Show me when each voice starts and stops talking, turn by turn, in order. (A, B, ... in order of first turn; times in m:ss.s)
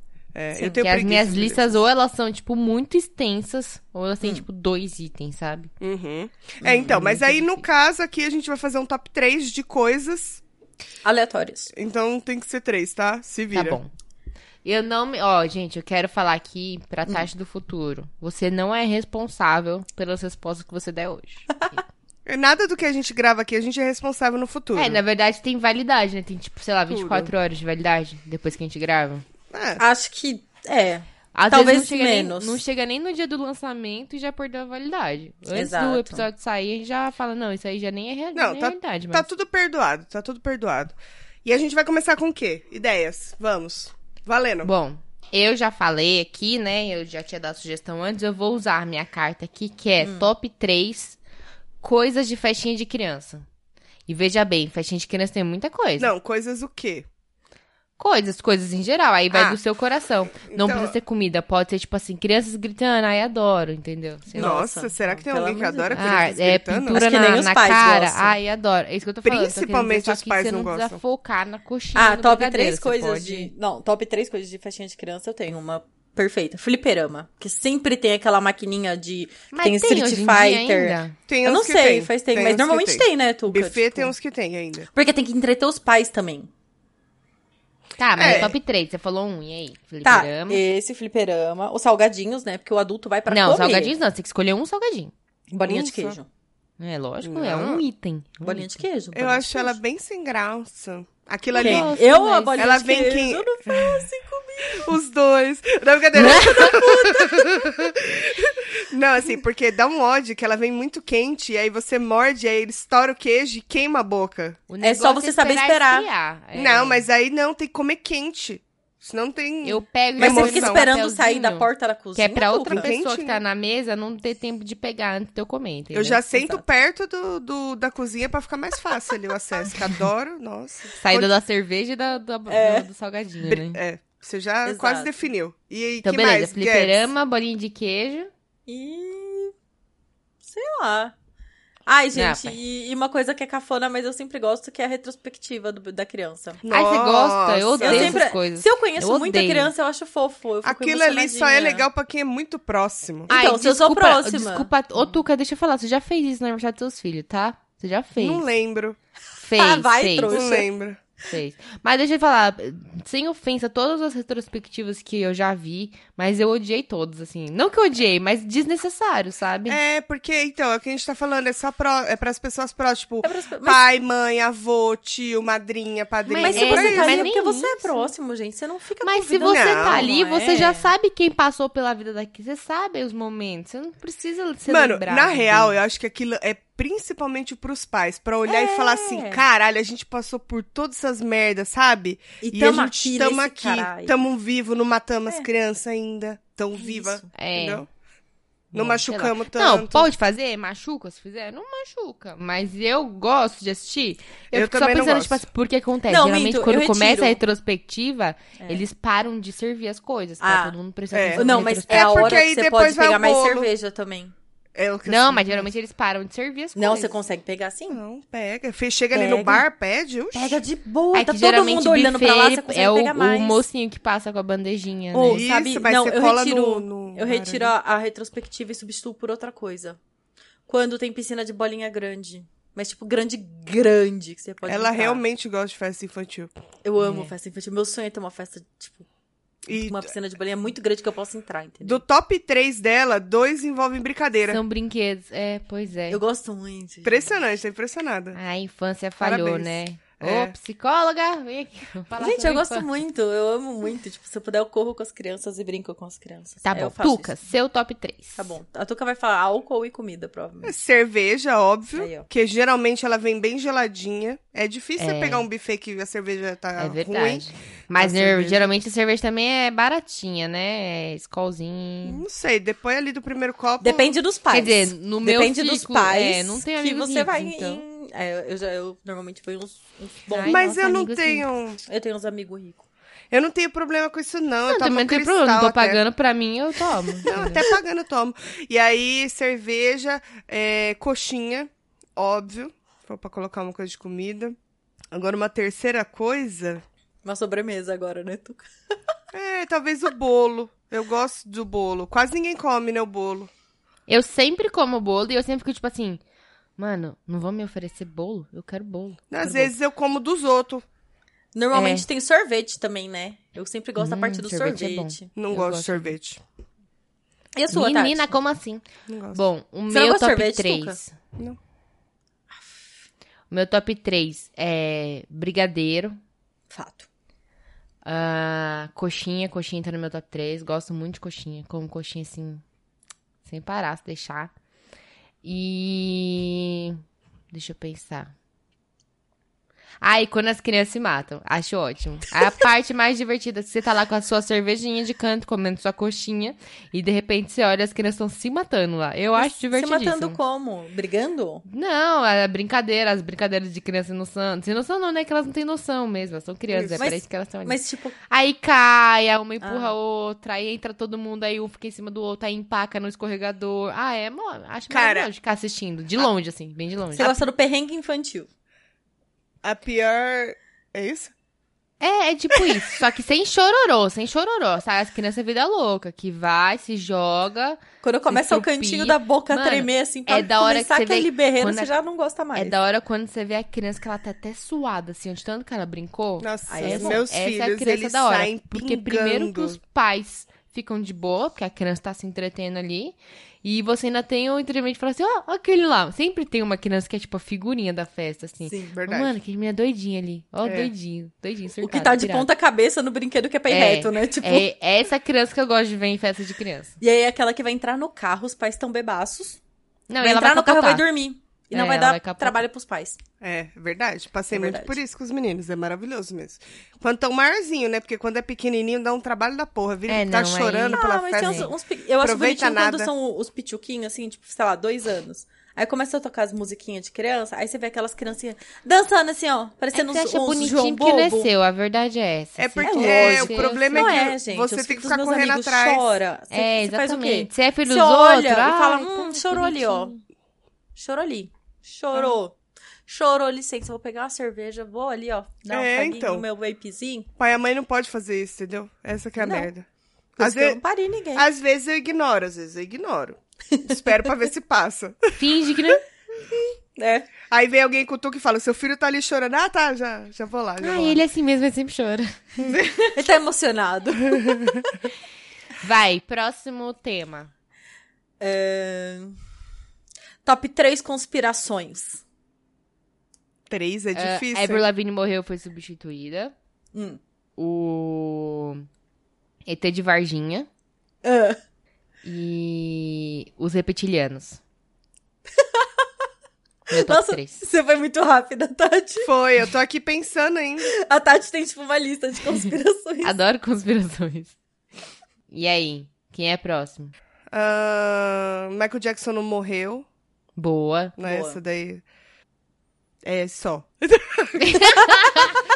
0:00.3-0:01.8 A
0:00.6-0:05.7 B
0:05.8-0:10.4 A
0:06.6-0:07.0 C
0:06.7-0:07.6 B
0:11.0-0:11.7 C
0:11.7-0:13.8 A
0:13.5-0:13.9 B
0:14.6-0:21.8 B
0:22.2-0:25.0 A
0:24.7-0:29.2 B
0:26.9-0:27.3 A
0:29.5-0:29.8 A
0:29.8-0:32.6 C
0:31.3-0:39.3 B
0:35.5-0:36.2 C
0:38.3-0:44.7 A
0:44.6-0:51.2 B
0:50.0-0:50.3 C
0:51.8-0:53.4 B
0:54.1-0:56.1 B
0:56.0-0:57.1 A
0:58.0-1:04.5 B
0:59.3-0:59.6 A
1:00.4-1:01.0 A
1:04.3-1:06.0 C
1:04.4-1:07.0 A
1:05.9-1:13.5 B
1:06.9-1:08.4 C
1:09.2-1:11.0 A
1:11.9-1:24.1 C
1:19.5-1:21.2 B
1:21.3-1:24.9 A
1:24.9-1:26.5 C
1:28.0-1:30.6 B
1:28.2-1:28.6 A
1:28.2-1:28.5 C
1:30.0-1:33.9 C
1:33.3-1:35.1 B
1:35.5-1:36.3 C
1:35.6-1:36.2 A
1:36.8-1:38.8 B
1:37.2-1:37.8 A
1:38.4-1:39.8 C
1:39.1-1:42.0 A
1:41.5-1:42.6 B
1:41.6-1:44.9 C
1:42.5-1:44.1 A
1:44.7-1:54.6 A
1:46.2-1:47.4 C
1:54.7-1:57.1 B
1:54.8-1:56.1 C
1:56.5-2:00.9 A
1:59.6-2:06.2 B
2:00.2-2:02.9 C
2:02.7-2:03.4 A
2:05.9-2:11.3 A
2:06.3-2:06.6 C
2:11.0-2:13.8 B
2:12.5-2:12.9 C
2:13.4-2:17.1 A
2:14.6-2:15.2 C
2:16.0-2:18.3 B
2:18.7-2:19.5 C
2:20.4-2:21.1 C
2:21.9-2:26.6 C
2:22.1-2:22.6 B
2:26.6-2:28.2 A
2:26.7-2:29.7 B
2:27.8-2:31.9 C
2:30.6-2:33.3 A
2:33.3-2:35.2 C
2:33.3-2:38.4 B
2:38.2-2:39.0 A
2:39.4-2:40.4 B
2:39.5-2:40.7 C
2:40.3-2:41.0 A
2:41.2-2:49.8 B
2:49.7-2:57.3 A
2:53.2-2:53.8 C
2:56.3-2:58.1 B
2:56.4-3:00.9 C
2:59.0-3:05.8 B
2:59.4-3:00.1 A
3:04.7-3:17.9 A
3:08.5-3:09.4 C
3:12.4-3:14.1 C
3:16.8-3:17.3 C
3:17.3-3:17.8 B
3:18.7-3:20.1 A
3:18.7-3:32.4 B
3:24.5-3:25.4 A
3:26.1-3:27.4 C
3:28.6-3:28.8 C
3:30.4-3:30.8 C
3:31.1-3:33.7 A
3:31.4-3:34.3 C
3:34.7-3:35.6 A
3:35.0-3:37.1 B
3:36.8-3:38.0 C
3:37.9-3:40.6 A
3:39.1-3:39.6 C
3:40.3-3:43.6 C
3:41.1-3:45.4 B
3:45.1-3:50.0 C
3:45.3-3:47.7 A
3:50.7-3:55.2 C
3:54.6-3:56.5 A
3:56.8-3:59.0 C
3:57.0-3:57.3 B
3:59.7-4:00.1 A
3:59.7-4:02.0 C
4:01.8-4:04.6 A
4:04.5-4:06.2 B
4:06.1-4:07.4 C
4:07.0-4:08.4 A
4:08.3-4:12.9 B
4:09.2-4:10.5 A
4:12.2-4:17.3 C
4:16.6-4:18.5 B
4:18.4-4:20.8 C
4:20.6-4:28.7 A
4:21.9-4:22.3 C
4:25.0-4:25.4 B
4:26.8-4:32.2 B
4:32.0-4:34.1 A
4:33.8-4:40.6 C
4:34.5-4:37.8 B
4:40.3-4:41.5 B
4:40.5-4:41.8 A
4:41.9-4:42.9 C
4:43.3-4:46.0 A
4:44.7-4:47.6 B
4:47.2-4:54.6 A
4:55.1-4:56.8 A
4:57.2-4:58.7 C
4:59.3-5:03.5 A
5:04.1-5:06.2 B
5:06.8-5:09.7 B
5:09.3-5:10.8 A
5:11.5-5:15.3 C
5:11.7-5:12.0 B
5:14.0-5:16.1 B
5:15.3-5:16.4 A
5:17.6-5:18.3 C
5:17.7-5:21.1 B
5:19.1-5:19.4 A
5:19.9-5:21.0 C
5:22.5-5:22.8 C
5:23.5-5:26.2 B
5:26.7-5:27.1 C
5:28.0-5:32.6 B
5:33.4-5:34.5 B
5:35.4-5:37.0 B
5:37.5-5:38.3 B
5:40.0-5:50.4 B
5:49.3-5:51.6 C
5:51.7-5:57.8 B
5:56.7-5:57.0 A
5:57.0-5:58.2 C
5:58.3-6:07.4 B
5:59.6-6:00.0 C
6:04.9-6:05.3 A
6:07.1-6:08.5 C
6:09.6-6:11.3 A
6:12.0-6:21.9 B
6:18.0-6:22.7 C
6:22.5-6:42.5 B
6:26.4-6:29.8 A
6:26.7-6:27.2 C
6:38.6-6:39.0 C
6:38.9-6:39.4 A
6:40.6-6:40.9 A
6:41.8-6:44.6 C
6:43.7-6:46.9 B
6:47.0-6:49.6 C
6:50.1-6:51.0 B
6:50.2-6:53.2 C
6:51.7-6:52.6 B
6:53.4-7:03.1 A
6:54.5-6:55.0 C
7:00.1-7:01.7 B
7:00.9-7:11.5 C
7:09.9-7:14.2 B
7:12.6-7:16.1 A
7:12.8-7:20.1 C
7:16.5-7:20.2 B
7:21.0-7:22.6 C
7:23.1-7:27.3 C
7:25.7-7:26.4 A
7:27.4-7:29.8 A
7:29.4-7:29.7 C
7:30.4-7:31.4 C
7:30.4-7:30.8 A
7:31.3-7:35.4 A
7:33.7-7:34.0 C
7:35.4-7:36.0 B
7:37.0-7:37.3 C
7:37.5-7:41.2 A
7:40.8-7:42.8 B
7:43.1-7:45.1 C
7:45.8-7:47.5 B
7:48.4-7:49.4 C
7:50.4-7:52.2 C
7:53.7-7:54.8 A
7:54.1-7:56.5 B
7:56.9-7:57.2 C
7:57.6-7:58.8 B
7:59.6-8:00.7 B
8:01.2-8:01.6 C
8:02.2-8:04.6 B
8:05.5-8:06.1 C
8:06.9-8:07.6 B
8:06.9-8:09.3 C
8:09.2-8:10.9 A
8:10.8-8:13.4 C
8:13.2-8:14.6 B
8:15.5-8:17.1 B
8:17.5-8:20.0 A
8:20.6-8:21.2 B
8:21.2-8:22.0 A
8:21.2-8:21.6 C
8:23.2-8:25.0 A
8:24.6-8:25.6 B